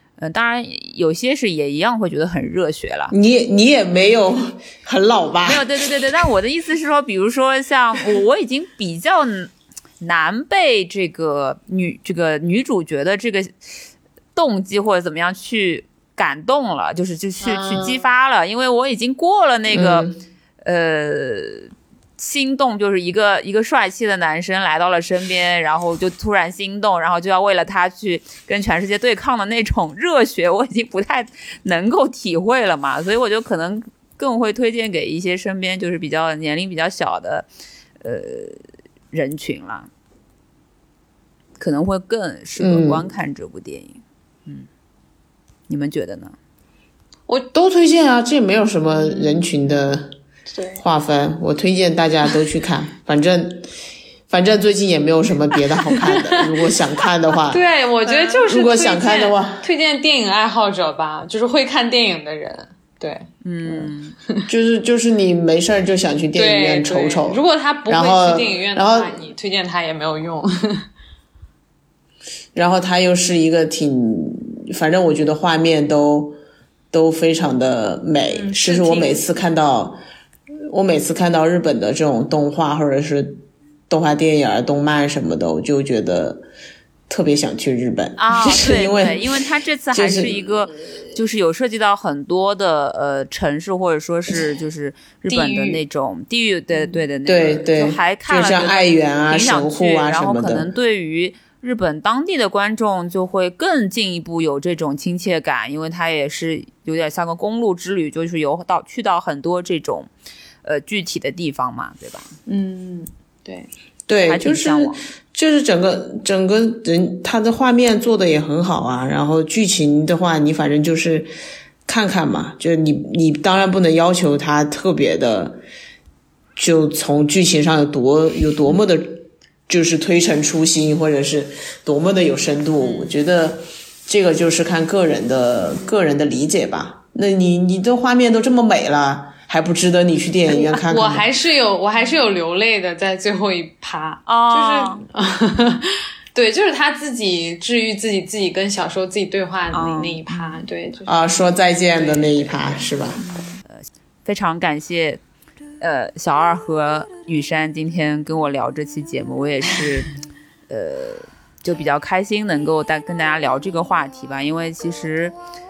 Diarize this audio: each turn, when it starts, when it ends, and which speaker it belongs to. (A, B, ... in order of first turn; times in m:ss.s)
0:00.2-0:03.1 A
0:03.1-0:05.7 B
0:05.4-0:13.5 A
0:14.4-0:20.1 A
0:17.4-0:18.0 C
0:19.7-0:20.2 B
0:20.6-0:37.5 A
0:38.0-0:38.6 A
0:39.1-0:39.9 A
0:41.6-0:44.7 A
0:42.6-0:43.0 B
0:45.7-0:46.4 A
0:47.3-0:50.1 B
0:49.0-0:49.4 C
0:50.5-0:50.8 C
0:50.8-0:53.7 B
0:54.3-0:59.6 B
0:56.0-0:56.8 C
0:57.5-1:04.4 C
1:03.4-1:04.2 A
1:04.5-1:09.1 B
1:06.3-1:10.9 C
1:12.6-1:16.4 B
1:16.9-1:20.0 B
1:18.3-1:19.3 C
1:20.7-1:26.4 B
1:27.1-1:29.2 B
1:28.2-1:50.1 A
1:29.9-1:30.4 B
1:35.3-1:35.8 C
1:37.3-1:40.7 B
1:50.6-1:52.3 A
1:52.5-1:53.7 C
1:54.1-2:01.3 B
1:54.2-1:55.0 A
2:01.9-2:05.6 B
2:06.6-2:21.3 B
2:12.8-2:13.2 C
2:20.6-2:33.0 C
2:24.3-2:25.0 A
2:29.7-2:30.6 A
2:31.1-2:33.2 B
2:33.3-2:35.2 A
2:35.8-2:40.2 A
2:40.7-2:45.4 A